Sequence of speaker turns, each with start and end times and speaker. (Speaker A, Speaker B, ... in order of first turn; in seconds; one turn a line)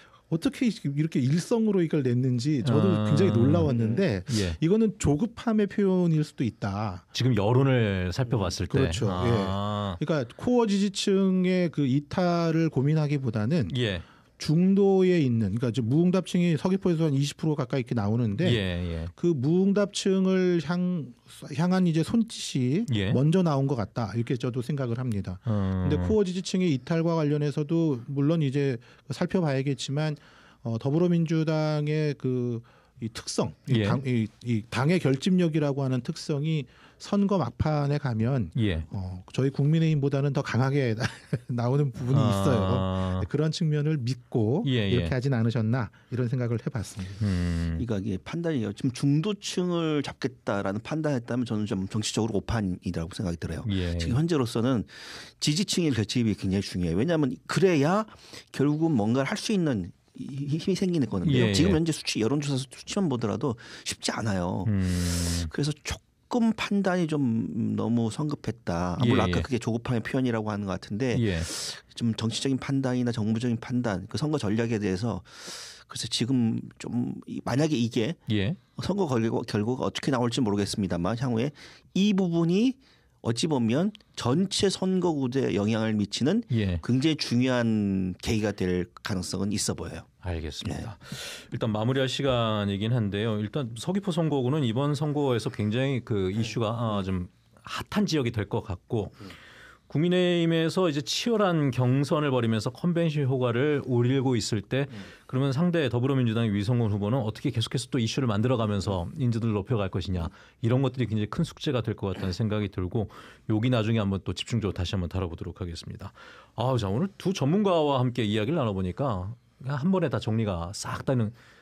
Speaker A: 0.3-7.0
Speaker B: 2.6-3.7
Speaker C: 3.7-4.0
Speaker B: 4.3-4.6
Speaker B: 7.1-10.0
Speaker A: 8.6-13.8
Speaker B: 13.7-14.0
Speaker A: 14.4-47.2
Speaker B: 18.4-19.1
Speaker B: 22.9-23.2
Speaker B: 25.4-26.1
Speaker B: 33.7-34.0
Speaker B: 38.5-38.9
Speaker B: 42.1-43.3
Speaker B: 44.6-45.1
Speaker B: 47.2-47.8
Speaker C: 47.8-78.2
Speaker B: 53.6-54.2
Speaker B: 61.2-61.8
Speaker B: 64.6-65.5
Speaker B: 69.0-69.5
Speaker B: 71.1-71.5
Speaker B: 78.3-78.6
Speaker C: 78.7-90.1
Speaker B: 86.5-86.8
Speaker B: 90.2-99.3
Speaker C: 90.6-90.9
Speaker B: 99.9-121.3